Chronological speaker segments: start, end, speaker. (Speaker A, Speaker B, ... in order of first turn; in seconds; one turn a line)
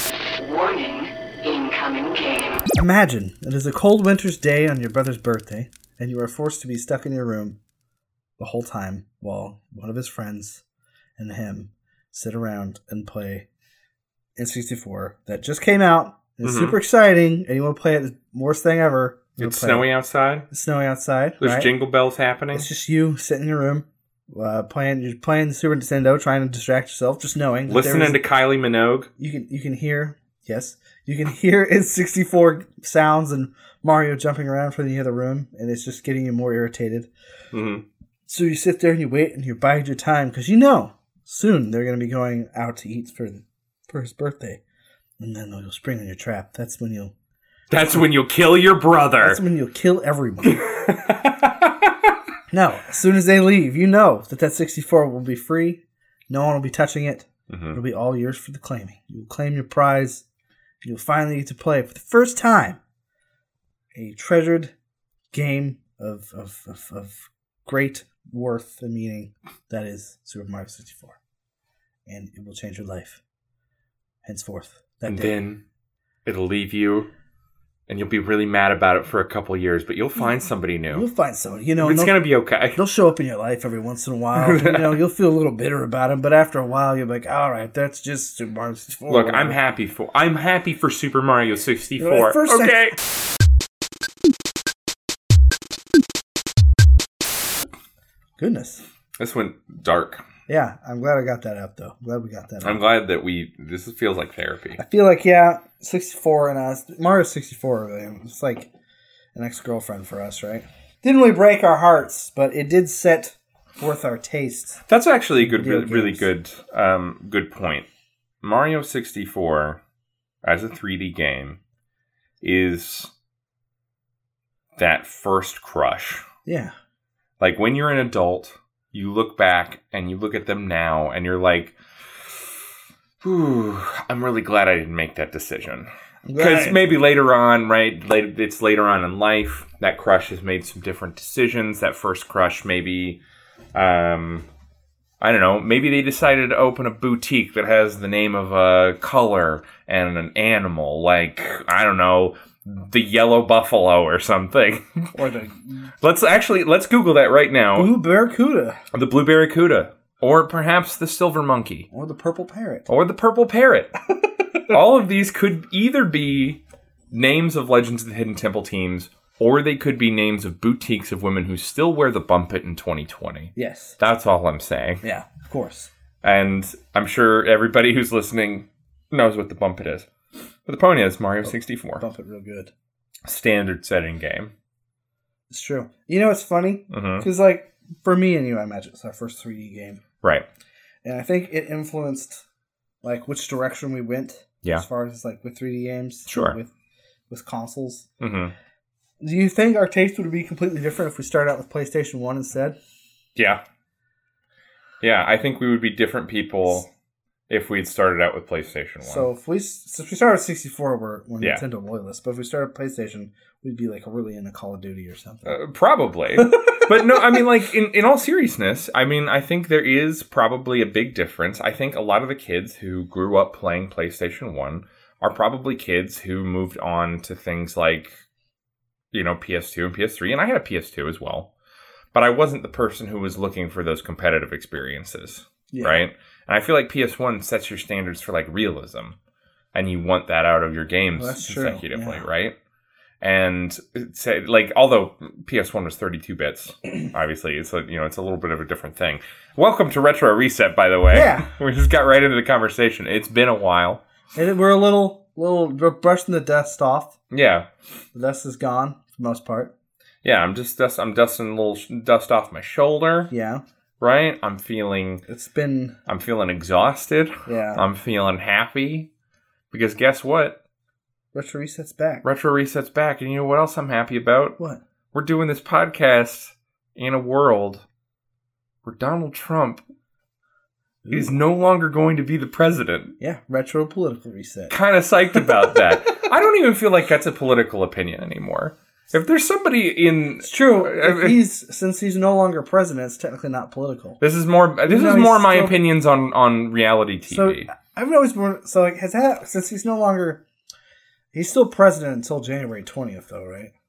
Speaker A: 0.4-2.6
Speaker B: 2.7-7.6
Speaker B: 8.4-10.6
Speaker B: 11.2-13.5
Speaker B: 14.4-19.9
Speaker C: 16.4-16.8
Speaker C: 19.4-20.5
Speaker B: 20.5-21.7
Speaker C: 21.4-22.7
Speaker B: 22.5-28.2
Speaker C: 27.7-29.1
Speaker B: 29.2-37.1
Speaker C: 37.5-37.8
Speaker B: 38.3-44.6
Speaker B: 45.2-47.1
Speaker C: 47.7-49.4
Speaker B: 47.7-48.0
Speaker B: 49.2-50.6
Speaker C: 50.4-52.1
Speaker B: 52.5-60.2
Speaker C: 57.5-57.8
Speaker B: 60.8-62.8
Speaker B: 63.9-64.7
Speaker B: 65.3-71.2
Speaker B: 72.1-73.2
Speaker B: 74.2-75.3
Speaker C: 75.1-75.6
Speaker C: 76.2-77.1
Speaker C: 77.9-81.1
Speaker B: 80.9-89.6
Speaker C: 81.8-82.8
Speaker C: 84.3-85.0
Speaker C: 89.1-93.0
Speaker B: 92.0-92.9
Speaker B: 98.4-98.8
Speaker C: 99.2-100.2
Speaker B: 100.5-102.8
Speaker C: 102.6-104.8
Speaker B: 104.8-108.7
Speaker B: 109.3-114.8
Speaker C: 114.9-117.9
Speaker B: 115.4-116.3
Speaker C: 118.4-119.8
Speaker C: 120.4-121.6
Speaker C: 122.4-123.1
Speaker C: 124.8-126.2
Speaker B: 126.5-126.7
Speaker C: 127.4-132.4
Speaker C: 133.2-143.2
Speaker B: 136.3-136.9
Speaker C: 143.7-144.5
Speaker C: 145.2-155.1
Speaker B: 155.1-155.9
Speaker C: 156.0-157.9
Speaker B: 157.8-158.8
Speaker C: 158.9-161.9
Speaker B: 161.9-162.9
Speaker C: 162.9-163.9
Speaker C: 164.7-175.0
Speaker B: 173.6-174.0
Speaker B: 175.0-175.9
Speaker C: 176.2-180.1
Speaker C: 180.7-182.0
Speaker B: 181.4-182.7
Speaker C: 183.2-184.5
Speaker B: 185.5-190.0
Speaker C: 186.9-187.3
Speaker B: 191.0-192.4
Speaker B: 193.0-196.7
Speaker C: 196.3-196.6
Speaker B: 197.3-198.1
Speaker C: 198.2-198.5
Speaker B: 199.2-202.8
Speaker C: 203.4-203.6
Speaker C: 205.0-206.9
Speaker C: 207.5-209.3
Speaker B: 209.0-215.6
Speaker C: 215.4-228.2
Speaker B: 216.4-217.4
Speaker C: 229.1-231.5
Speaker C: 232.1-239.2
Speaker B: 235.7-236.0
Speaker C: 239.7-242.6
Speaker B: 241.2-242.2
Speaker C: 243.2-254.0
Speaker B: 251.1-251.5
Speaker B: 254.3-257.1
Speaker C: 257.3-257.7
Speaker B: 258.1-259.7
Speaker C: 260.2-263.3
Speaker B: 263.3-263.6
Speaker C: 264.0-265.2
Speaker B: 265.3-266.0
Speaker C: 266.1-269.1
Speaker B: 267.5-267.8
Speaker C: 269.7-270.6
Speaker B: 271.3-272.2
Speaker C: 272.2-274.6
Speaker C: 275.1-277.8
Speaker C: 278.8-279.8
Speaker B: 281.0-281.4
Speaker C: 281.1-283.1
Speaker B: 283.2-284.8
Speaker C: 284.7-291.4
Speaker B: 290.4-294.2
Speaker C: 294.2-297.7
Speaker B: 294.9-295.7
Speaker B: 297.3-300.4
Speaker B: 301.3-303.7